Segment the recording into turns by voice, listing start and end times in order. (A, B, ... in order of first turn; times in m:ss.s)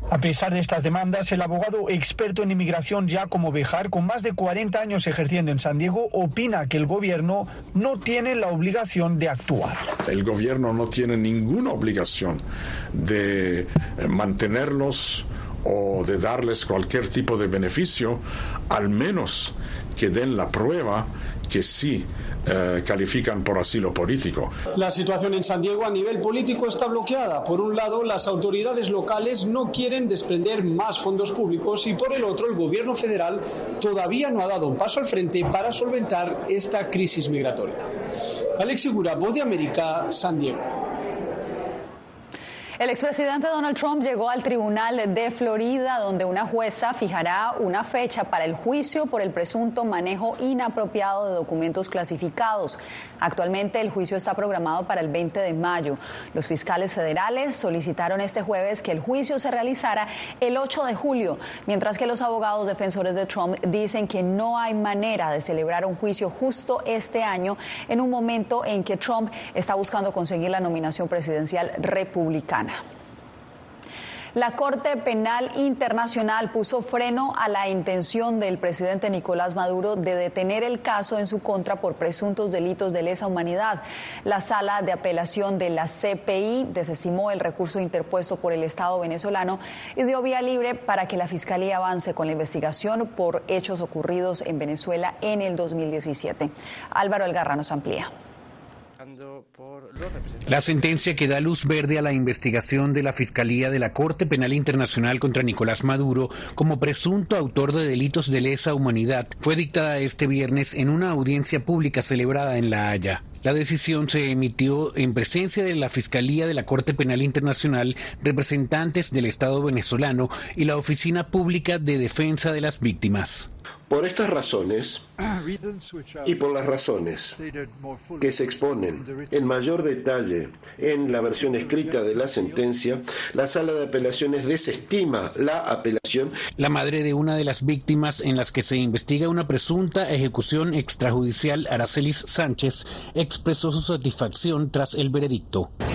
0:00.1-0:09.7 A
0:10.1-0:12.4 B
0:13.0-0:18.2 B
0:18.7-0:22.0 B
0:22.5-0:24.5 B
0:24.7-0:37.9 A
0:38.6-0:40.6 A
0:42.8-1:12.8 C
1:14.3-1:38.1 C
1:40.5-2:03.5 D
2:03.9-2:05.0 E
2:06.2-2:07.4 E
2:08.2-2:16.3 E
2:16.6-2:25.7 D